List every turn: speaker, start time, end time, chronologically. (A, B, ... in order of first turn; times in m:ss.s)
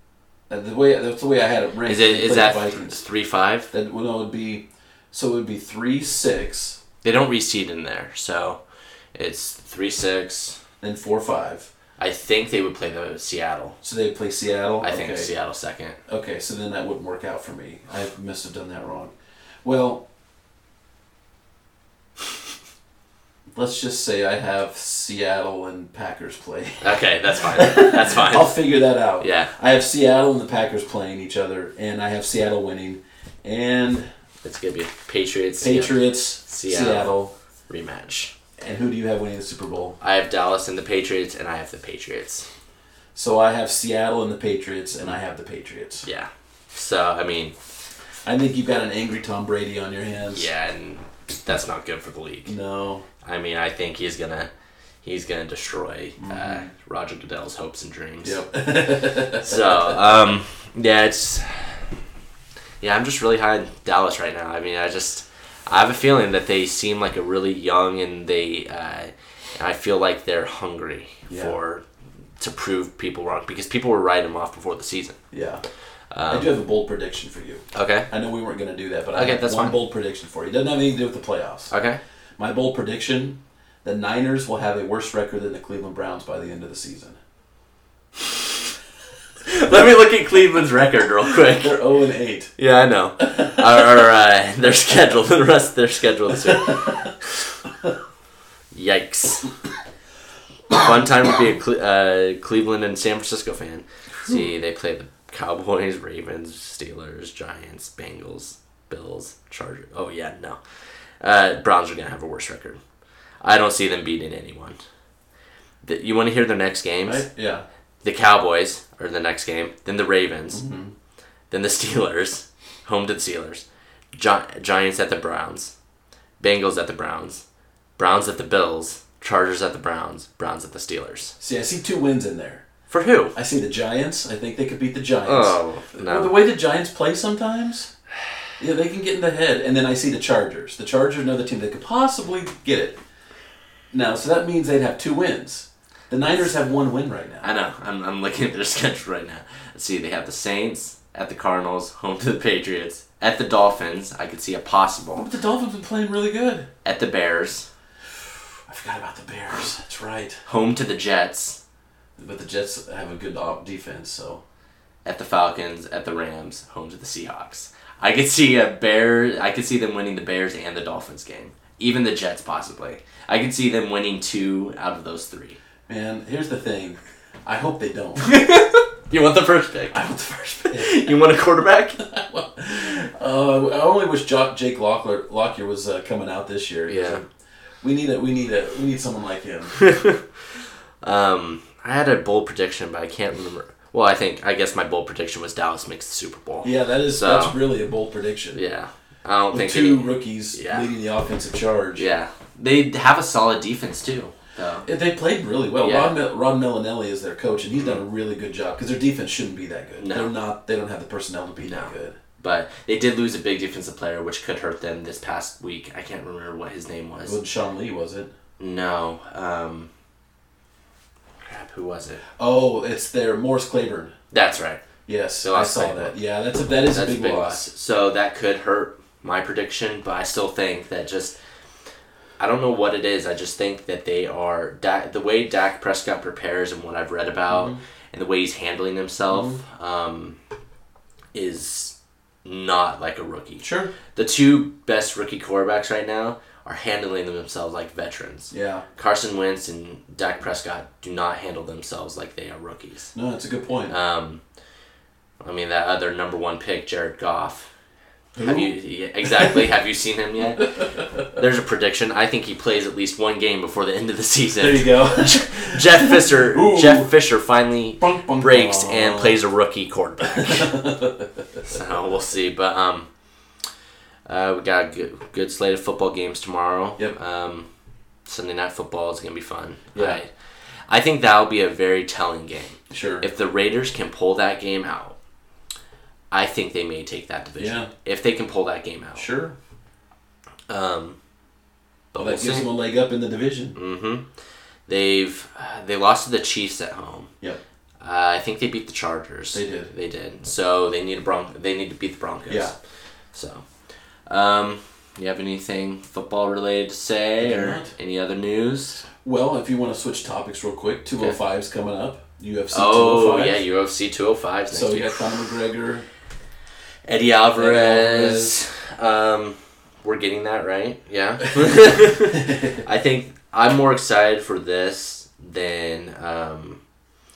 0:00.5-0:03.0 A
0:01.8-0:03.7 B
0:03.7-0:06.8 A
0:07.0-0:08.6 B
0:09.1-0:10.6 B
0:10.8-0:11.7 A
0:12.0-0:13.8 B
0:13.8-0:15.3 A
0:14.8-0:16.0 B
0:16.1-0:19.1 A
0:19.6-0:20.0 A
0:23.5-0:34.1 A
0:26.8-0:28.6 B
0:29.2-0:29.5 B
0:34.4-0:37.1 B
0:35.6-0:37.3 A
0:37.7-0:38.3 B
0:38.6-0:40.0 A
0:40.0-0:42.5 B
0:43.1-0:46.0 A
0:46.0-0:47.6 B
0:48.2-0:50.5 A
0:50.3-0:52.6 B
0:52.5-0:53.0 A
0:53.2-0:54.5 B
0:55.0-0:58.4 B
0:56.2-0:56.7 A
0:58.2-1:00.1 A
0:59.2-1:01.9 B
1:02.8-1:11.8 B
1:11.3-1:11.6 A
1:12.4-1:15.2 B
1:15.3-1:15.6 A
1:16.1-1:16.5 B
1:16.3-1:21.7 A
1:17.7-1:18.1 B
1:19.1-1:19.8 B
1:21.7-1:22.0 B
1:22.4-1:27.2 A
1:29.4-1:31.8 B
1:31.4-1:32.5 A
1:32.6-1:37.4 B
1:33.2-1:34.0 A
1:36.5-1:36.8 A
1:38.7-1:39.5 B
1:40.7-1:50.6 B
1:51.2-1:52.8 B
1:53.4-1:54.8 B
1:55.8-1:57.3 B
1:57.0-1:57.6 A
1:58.0-2:00.6 B
2:00.5-2:00.9 A
2:01.5-2:05.7 B
2:06.4-2:07.4 B
2:08.0-2:11.3 B
2:11.4-2:12.6 A
2:12.9-2:13.4 B
2:13.3-2:17.9 A
2:15.2-2:16.3 B
2:18.6-2:23.0 A
2:23.9-2:27.4 A
2:27.4-2:35.3 B
2:35.2-2:36.7 A
2:36.8-2:37.7 B
2:38.7-2:40.4 A
2:40.4-2:41.6 B
2:42.2-2:44.4 A
2:45.0-2:55.6 B
2:55.9-2:58.3 A
2:58.2-3:02.0 B
2:59.9-3:01.2 A
3:02.0-3:07.2 A
3:06.9-3:07.2 B
3:07.8-3:09.8 A
3:09.8-3:10.2 B
3:11.0-3:17.6 B
3:16.6-3:18.6 A
3:18.5-3:20.9 B
3:19.5-3:22.1 A
3:22.0-3:24.9 B
3:24.8-3:32.2 A
3:25.8-3:26.2 B
3:27.7-3:28.0 B
3:30.0-3:30.3 B
3:31.6-3:37.4 B
3:37.2-3:38.3 A
3:38.6-3:39.9 B
3:41.4-3:42.2 B
3:42.4-3:44.1 A
3:44.3-3:44.8 B
3:45.1-3:47.7 A
3:45.4-3:46.2 B
3:46.7-3:51.4 B
3:52.4-4:00.4 B
3:57.5-3:57.8 A
3:59.3-3:59.6 A
4:01.3-4:13.1 B
4:03.6-4:03.9 A
4:08.5-4:08.8 A
4:13.1-4:13.9 A
4:13.9-4:14.4 B
4:15.4-4:17.7 B
4:18.4-4:19.6 A
4:18.4-4:30.8 B
4:24.6-4:27.2 A
4:28.0-4:29.4 A
4:30.2-4:31.8 A
4:31.6-4:33.1 B
4:34.2-4:37.7 B
4:38.2-4:40.3 B
4:39.9-4:40.2 A
4:40.9-4:45.2 B
4:42.9-4:43.2 A
4:46.3-4:49.3 B
4:47.6-4:47.9 A
4:49.2-4:49.5 A
4:50.7-4:51.2 B
4:52.1-4:52.7 B
4:52.2-4:53.8 A
4:53.8-4:54.2 B
4:54.9-4:57.3 B
4:58.0-5:02.7 B
4:59.5-4:59.9 A
5:02.5-5:02.8 A
5:03.3-5:03.6 B
5:04.3-5:09.1 B
5:07.4-5:07.9 A
5:09.2-5:13.6 A
5:12.7-5:15.5 B
5:14.7-5:16.0 A
5:17.0-5:26.8 B
5:17.6-5:18.6 A
5:22.3-5:22.8 A